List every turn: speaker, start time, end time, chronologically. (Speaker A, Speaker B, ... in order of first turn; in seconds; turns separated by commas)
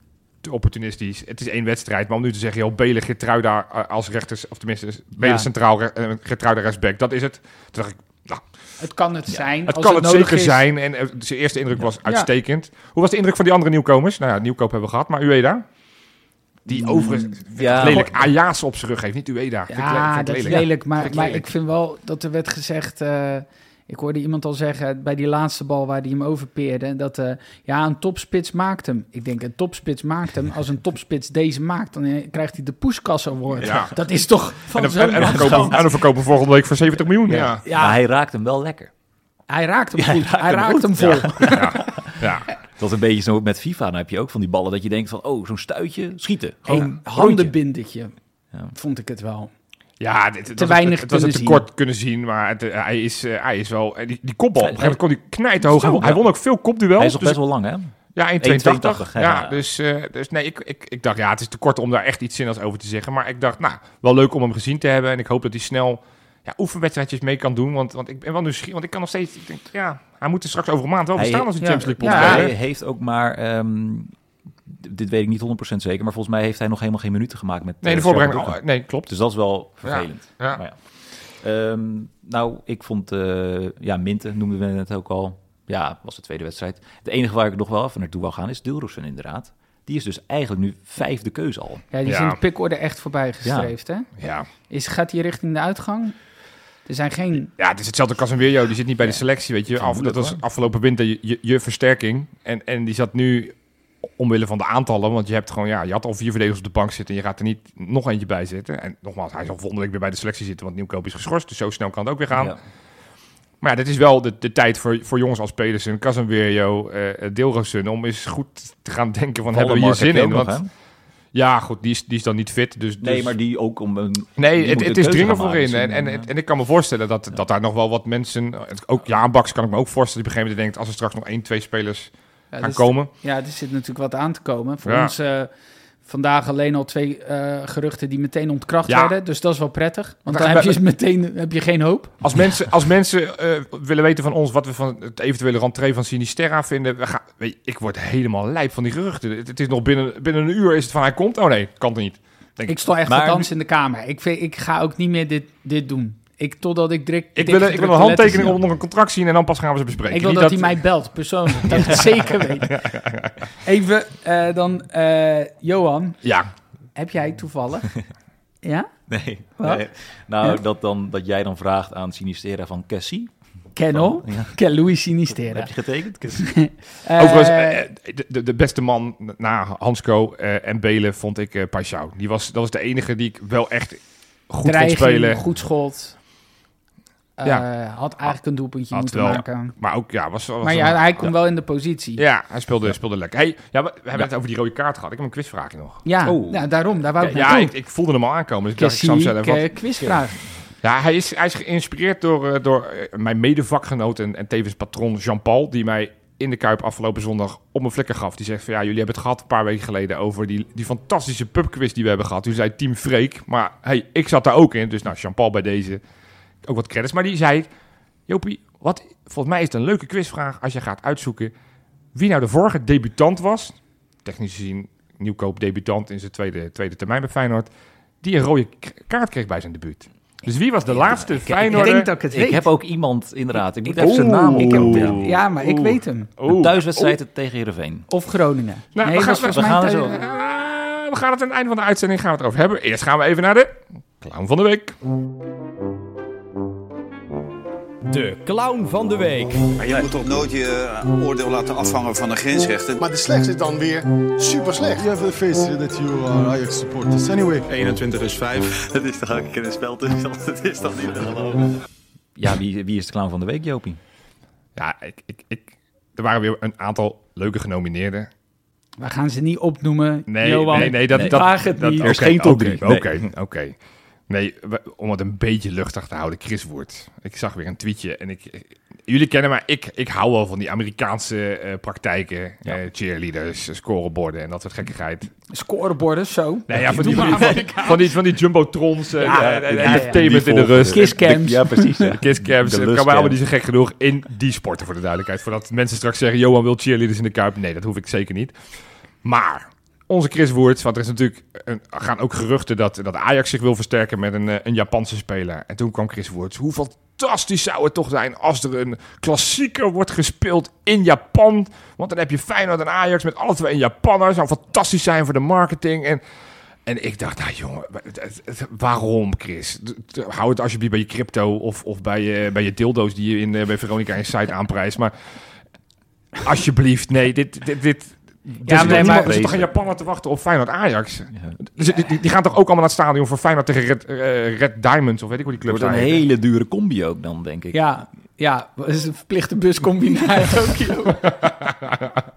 Speaker A: 0.4-8.5, Speaker B: 5.2-5.5, Speaker B: 8.8-10.6, Speaker A: 9.7-15.6, Speaker A: 16.6-21.5, Speaker C: 16.7-18.3, Speaker B: 17.8-18.1, Speaker B: 19.7-36.0, Speaker A: 33.6-37.6, Speaker C: 35.2-35.7, Speaker C: 37.3-38.9, Speaker B: 37.3-38.0, Speaker B: 39.5-41.8, Speaker C: 40.0-42.2, Speaker A: 41.0-42.5, Speaker C: 42.7-47.5, Speaker B: 46.7-48.1, Speaker B: 48.7-49.5, Speaker A: 50.0-57.4, Speaker B: 50.5-51.6, Speaker C: 54.6-55.0, Speaker C: 55.6-56.2, Speaker C: 57.0-59.6, Speaker A: 58.1-72.5, Speaker C: 71.2-91.9, Speaker B: 71.6-72.5, Speaker A: 77.8-80.6, Speaker B: 91.9-94.1, Speaker A: 92.0-92.4, Speaker C: 93.4-93.7, Speaker A: 94.2-94.5, Speaker B: 94.7-96.2, Speaker B: 96.8-97.5, Speaker A: 97.6-103.5, Speaker C: 99.0-100.4, Speaker A: 104.2-112.6, Speaker C: 112.3-112.6, Speaker A: 113.6-120.6, Speaker C: 119.5-120.7, Speaker A: 121.3-123.3, Speaker C: 123.0-126.3, Speaker A: 124.4-133.1, Speaker B: 132.5-135.5, Speaker A: 134.8-135.1, Speaker B: 136.0-142.2, Speaker A: 138.9-139.2, Speaker A: 140.3-140.8, Speaker A: 142.2-152.8, Speaker B: 152.7-158.5, Speaker C: 153.1-153.5, Speaker A: 157.3-160.8, Speaker B: 160.1-162.9, Speaker A: 161.5-163.3, Speaker B: 163.6-166.2, Speaker A: 166.2-166.5, Speaker B: 166.9-167.9, Speaker B: 168.6-168.9, Speaker C: 169.1-173.3, Speaker B: 169.6-169.8, Speaker B: 173.7-175.7, Speaker C: 173.9-174.6, Speaker C: 175.3-176.6, Speaker B: 176.3-177.8, Speaker A: 177.2-185.4, Speaker B: 184.6-186.2, Speaker B: 187.4-189.7, Speaker A: 188.9-191.3, Speaker B: 190.6-192.2, Speaker A: 192.2-196.0, Speaker B: 196.0-197.7, Speaker C: 196.2-196.6, Speaker C: 197.2-197.5, Speaker A: 197.2-200.1, Speaker B: 198.8-200.4, Speaker A: 200.8-216.0, Speaker A: 216.6-217.7, Speaker A: 218.3-221.5, Speaker A: 222.1-227.7, Speaker A: 228.2-232.1, Speaker C: 230.9-235.3, Speaker B: 231.7-232.6, Speaker A: 233.9-237.2, Speaker B: 234.6-236.3, Speaker C: 236.4-238.1, Speaker B: 238.1-240.2, Speaker A: 238.9-245.0, Speaker C: 239.1-240.2, Speaker D: 248.0-250.0, Speaker E: 249.8-253.0, Speaker F: 253.0-257.7, Speaker E: 257.7-261.7, Speaker C: 262.4-264.0, Speaker A: 264.8-268.3, Speaker B: 269.0-272.3, Speaker A: 270.3-273.8, Speaker C: 270.7-273.3, Speaker A: 274.3-285.3, Speaker B: 285.5-287.9, Speaker A: 286.7-291.2, Speaker C: 286.8-287.8, Speaker C: 289.2-293.4, Speaker B: 289.2-290.2, Speaker B: 290.8-292.1, Speaker A: 292.0-298.6, Speaker A: 299.2-316.2, Speaker A: 316.9-325.1, Speaker A: 326.4-336.2, Speaker B: 328.6-329.4, Speaker C: 328.7-329.7, Speaker C: 331.3-332.0, Speaker C: 335.7-337.8, Speaker B: 337.7-341.4, Speaker A: 341.5-342.1